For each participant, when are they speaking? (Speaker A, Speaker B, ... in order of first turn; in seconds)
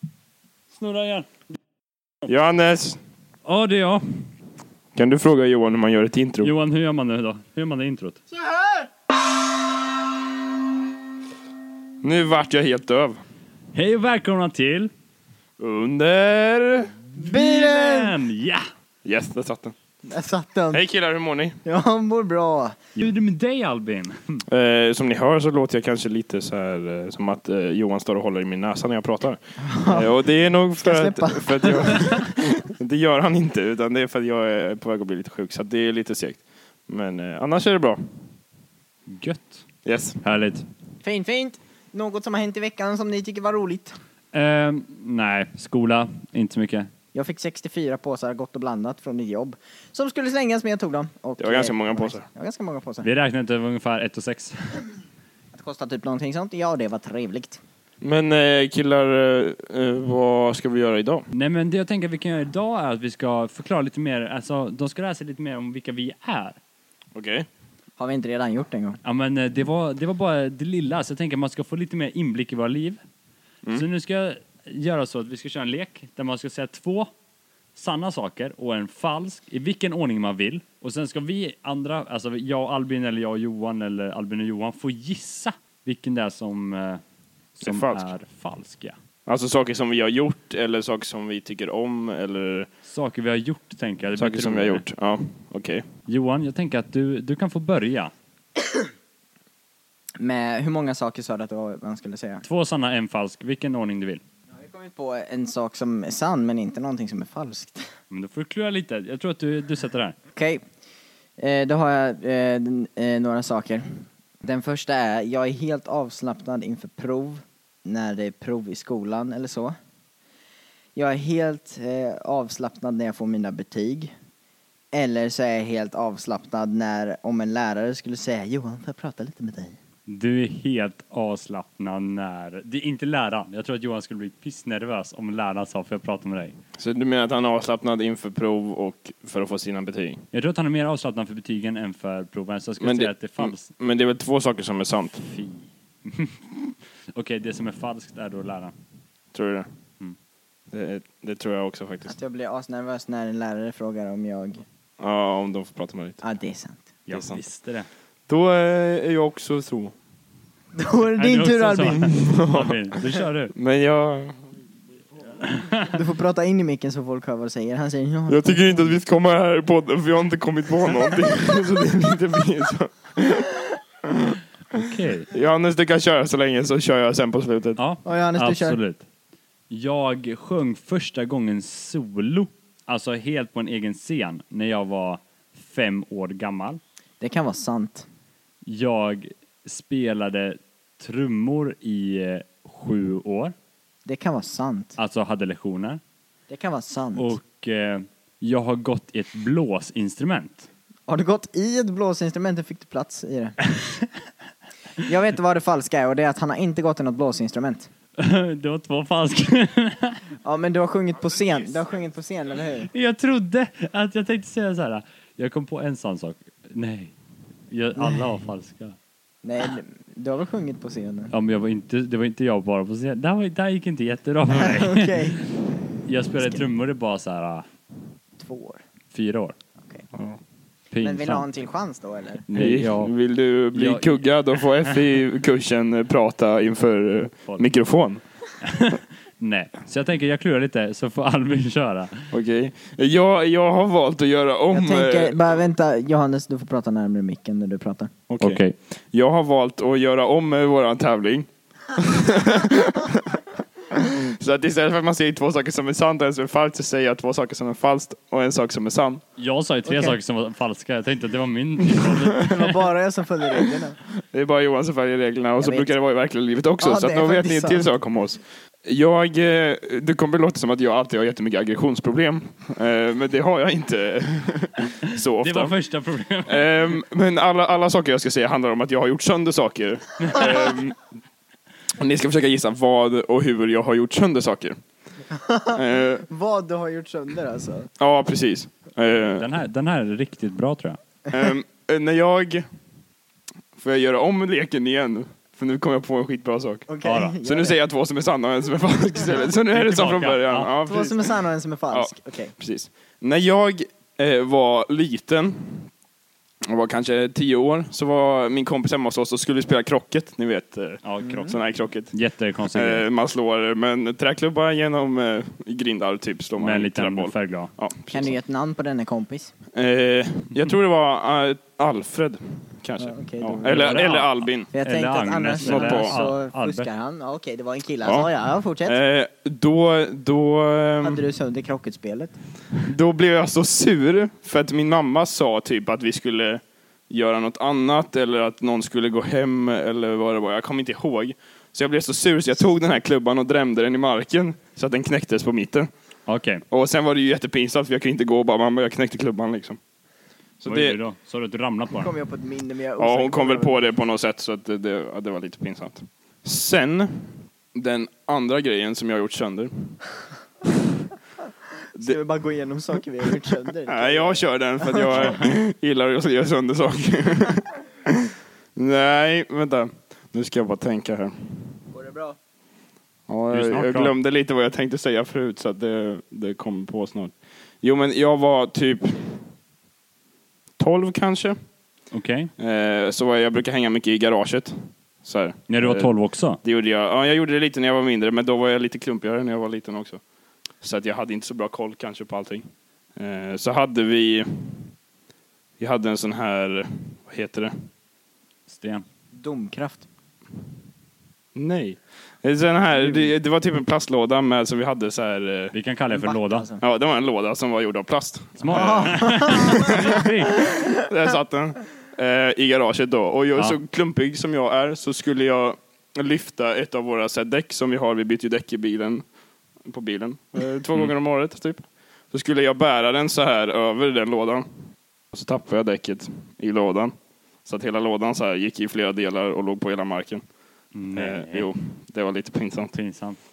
Speaker A: 0.7-1.4, 3.5-4.3, 6.4-8.2, 13.7-14.9, 17.1-18.6, 23.0-24.4, 39.1-39.6, 40.2-40.7, 44.3-46.9, 53.0-54.9, 61.3-66.6, 69.0-73.0, 73.7-77.1, 77.8-87.0, 87.6-89.0, 92.8-94.8, 96.1-98.1, 102.4-104.2, 108.1-110.2, 130.1-136.6, 140.3-143.7, 145.2-148.7, 157.1-157.9, 161.2-163.5, 165.4-165.9, 174.7-175.3, 177.8-179.0, 179.7-186.8, 188.7-193.5, 195.0-196.0, 197.2-200.7, 208.2-210.2, 212.8-217.2, 217.7-219.0, 221.3-225.4, 226.1-227.7, 229.1-229.6, 230.9-231.5, 232.5-233.1, 233.7-234.2, 238.6-242.3, 248.4-248.8, 259.4-262.6, 275.4-276.7, 289.4-291.0, 297.0-297.4, 299.7-300.7, 311.0-313.1, 316.6-317.7, 323.6-326.9, 346.3-346.6, 350.7-352.1, 373.5-374.1, 382.1-382.5, 385.7-386.6, 398.7-399.0, 405.7-406.7, 408.6-410.6, 430.9-431.7, 432.9-433.4
Speaker B: 2.3-3.0, 5.0-6.5, 12.0-13.2, 15.6-16.9, 19.1-19.7, 20.7-21.6, 24.5-38.0, 39.9-40.2, 51.4-52.3, 58.0-61.2, 67.2-67.5, 87.6-88.1, 89.3-92.7, 94.2-95.8, 136.8-140.2, 142.8-145.2, 149.3-149.7, 150.7-152.1, 155.0-156.2, 157.1-157.4, 158.3-159.9, 162.0-164.5, 168.3-177.8, 230.1-230.4, 232.5-238.2, 242.3-245.4, 248.3-248.6, 249.1-259.2, 262.0-262.3, 264.3-275.7, 276.5-281.0, 281.9-284.8, 285.8-286.3, 288.0-289.5, 291.3-292.6, 293.8-296.9, 297.4-301.4, 301.9-305.9, 306.6-312.2, 312.7-318.4, 319.8-324.7, 325.6-326.2, 328.0-328.3, 328.8-331.2, 332.9-345.9, 346.7-349.8, 350.6-351.0, 353.0-360.1, 363.9-371.8, 373.3-379.3, 380.8-381.6, 382.6-390.2, 390.8-392.6, 393.2-394.9, 395.8-397.7, 401.6-405.7, 406.8-410.2, 410.8-419.2, 419.9-424.6, 425.3-427.1, 427.6-430.4, 431.1-432.9
Speaker C: 17.2-18.2, 20.0-20.8, 21.6-22.9, 29.6-30.1, 30.8-32.4, 41.0-43.9, 47.1-53.1, 55.5-57.6, 68.0-69.0, 100.2-102.4, 104.5-107.9, 110.4-110.6, 111.4-113.8, 114.4-119.7, 121.0-124.1, 124.9-129.8, 152.1-154.6, 156.2-156.9, 160.8-162.2, 165.9-169.0, 178.0-178.8, 187.2-188.1, 194.1-195.0, 196.5-197.3, 201.1-203.6, 205.0-207.9, 210.4-212.9, 218.0-218.3, 219.4-221.3, 224.5-225.5, 228.4-228.8, 231.0-232.4, 244.7-248.1, 259.9-260.2, 262.4-264.0, 265.6-265.9, 266.8-267.9, 285.3-287.9, 296.9-297.8, 300.9-302.5, 311.2-311.6, 318.1-319.5, 323.0-324.0, 324.7-329.0, 331.0-332.4, 351.9-353.8, 362.0-365.4, 371.9-372.4, 399.3-400.1, 403.0-403.3, 406.1-406.8, 408.7-409.9